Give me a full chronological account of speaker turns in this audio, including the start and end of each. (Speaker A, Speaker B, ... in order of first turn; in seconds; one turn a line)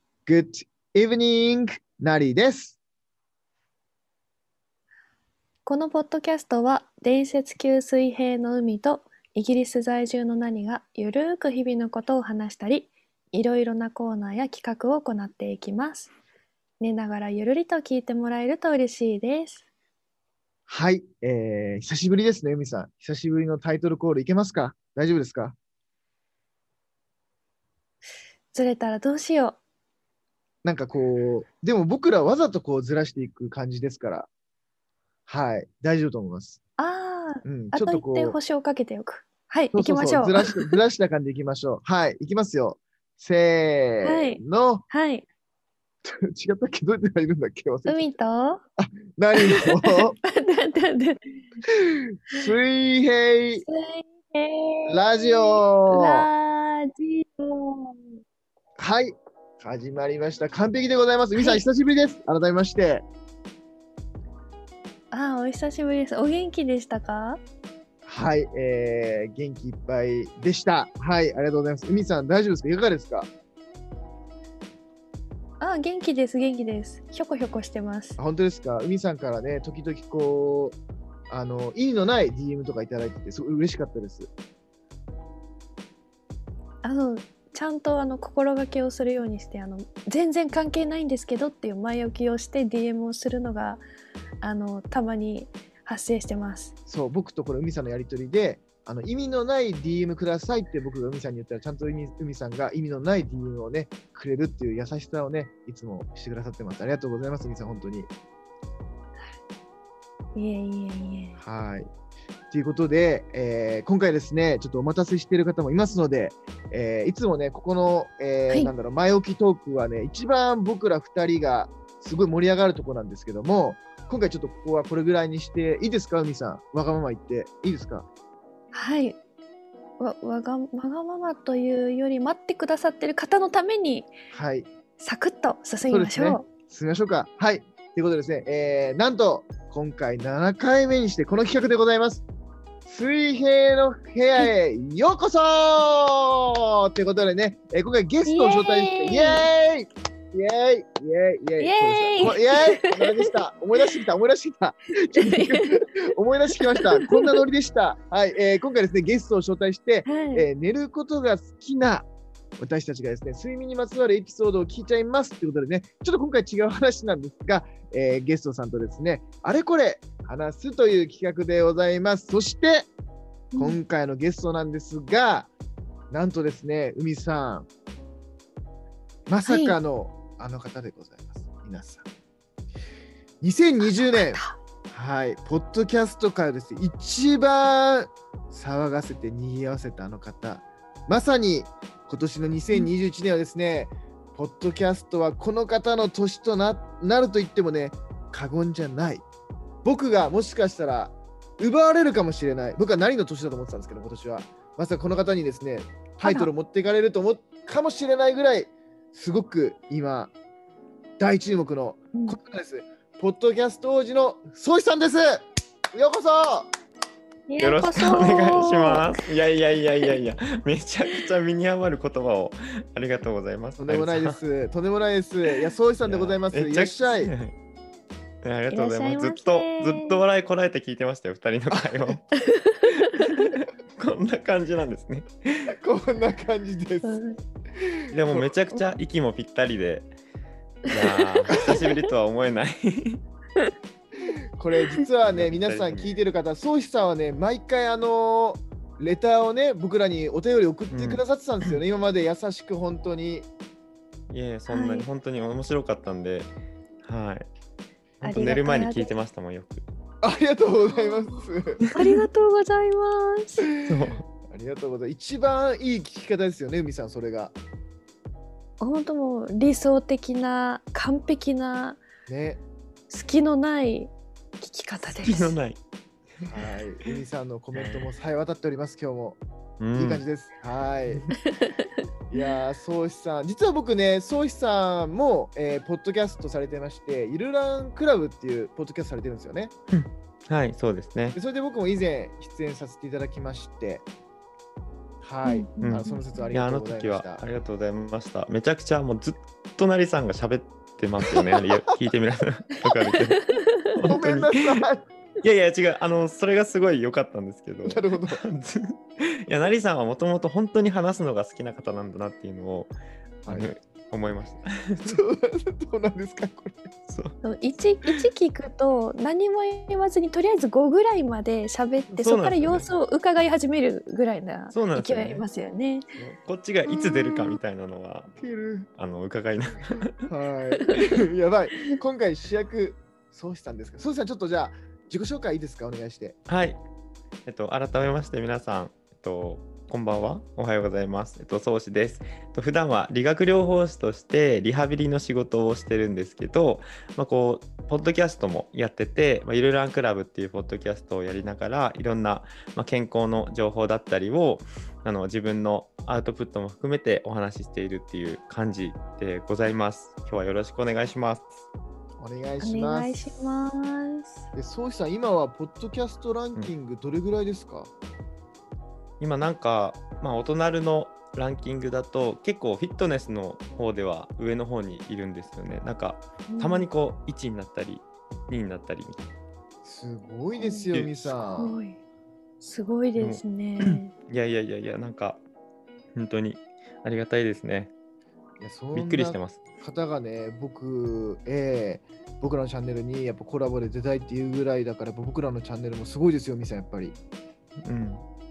Speaker A: 0.2-2.8
Speaker B: 5.7-16.1
Speaker B: 16.8-19.6
Speaker A: 20.7-25.6
Speaker B: 28.5-29.6
Speaker A: 30.6-34.3
Speaker A: 35.3-36.6
Speaker B: 36.8-40.7
Speaker A: 37.4-38.4
Speaker A: 39.7-44.8
Speaker B: 44.0-45.2
Speaker A: 46.0-48.0
Speaker B: 47.9-48.6
Speaker A: 48.8-50.1
Speaker B: 49.4-51.2
Speaker A: 51.8-53.6
Speaker B: 53.6-58.2
Speaker A: 54.9-56.3
Speaker A: 58.8-63.0
Speaker B: 61.4-61.6
Speaker B: 65.1-67.4
Speaker A: 68.0-73.3
Speaker B: 75.6-78.2
Speaker A: 78.2-80.8
Speaker A: 81.3-84.3
Speaker B: 86.8-93.8
Speaker B: 94.4-96.7
Speaker A: 96.9-108.1
Speaker B: 110.3-111.4
Speaker A: 111.4-111.9
Speaker A: 112.5-128.1
Speaker B: 128.7-129.2
Speaker B: 130.0-134.1
Speaker A: 134.3-134.7
Speaker B: 135.0-136.4
Speaker A: 135.9-142.2
Speaker A: 142.8-172.9
Speaker B: 148.2-149.5
Speaker B: 151.6-153.9
Speaker B: 155.1-155.8
Speaker B: 156.6-157.4
Speaker B: 160.0-160.5
Speaker B: 173.5-173.8
Speaker A: 173.6-175.5
Speaker A: 176.1-177.7
Speaker A: 179.3-182.1
Speaker B: 179.4-179.8
Speaker A: 183.4-199.2
Speaker B: 184.0-184.6
Speaker A: 199.8-210.3
Speaker B: 206.2-206.5
Speaker A: 211.2-216.7
Speaker B: 212.1-212.4
Speaker B: 217.5-219.0
Speaker C: 217.6-224.4
Speaker A: 218.2-218.6
Speaker A: 223.8-227.3
Speaker C: 226.0-227.5
Speaker C: 228.4-232.2
Speaker B: 228.7-230.2
Speaker A: 231.7-232.2
Speaker B: 232.3-233.5
Speaker C: 233.0-235.7
Speaker A: 235.7-237.2
Speaker B: 237.0-237.4
Speaker A: 237.8-238.5
Speaker C: 238.1-240.1
Speaker C: 240.9-243.2
Speaker B: 241.0-241.9
Speaker A: 244.6-253.5
Speaker C: 245.3-246.1
Speaker C: 250.9-251.7
Speaker C: 254.3-256.5
Speaker B: 254.7-255.1
Speaker C: 257.0-257.5
Speaker C: 258.2-259.9
Speaker B: 258.2-259.1
Speaker A: 260.2-261.8
Speaker B: 261.8-263.7
Speaker C: 261.9-262.2
Speaker A: 263.7-267.5
Speaker C: 263.9-264.2
Speaker B: 268.8-272.0
Speaker A: 272.3-272.6
Speaker B: 273.1-275.6
Speaker C: 275.1-275.8
Speaker A: 276.4-279.4
Speaker C: 277.7-278.1
Speaker C: 279.8-280.2
Speaker A: 279.9-281.3
Speaker B: 281.4-281.8
Speaker A: 282.3-289.7
Speaker C: 289.9-291.4
Speaker A: 291.3-294.1
Speaker A: 295.2-297.4
Speaker B: 295.4-296.2
Speaker C: 295.8-303.4
Speaker A: 301.3-301.7
Speaker B: 302.8-303.9
Speaker C: 303.9-304.8
Speaker A: 304.0-305.0
Speaker C: 305.4-312.9
Speaker A: 307.9-308.4
Speaker C: 313.4-315.2
Speaker A: 315.0-316.9
Speaker C: 317.1-317.4
Speaker B: 317.4-326.1
Speaker C: 322.1-322.9
Speaker C: 324.7-325.4
Speaker C: 326.1-328.3
Speaker A: 328.4-328.9
Speaker C: 329.0-330.3
Speaker A: 330.2-336.4
Speaker B: 330.8-331.1
Speaker C: 336.5-336.8
Speaker C: 337.4-361.6
Speaker A: 362.2-363.4
Speaker B: 362.6-364.4
Speaker A: 364.5-367.9
Speaker C: 369.2-379.3
Speaker B: 376.5-376.9
Speaker A: 379.8-381.8
Speaker B: 380.6-380.9
Speaker C: 380.9-381.3
Speaker B: 381.5-382.0
Speaker B: 382.6-384.1
Speaker C: 383.2-385.4
Speaker C: 386.1-387.9
Speaker A: 388.6-397.2
Speaker C: 388.9-389.6
Speaker C: 397.8-398.2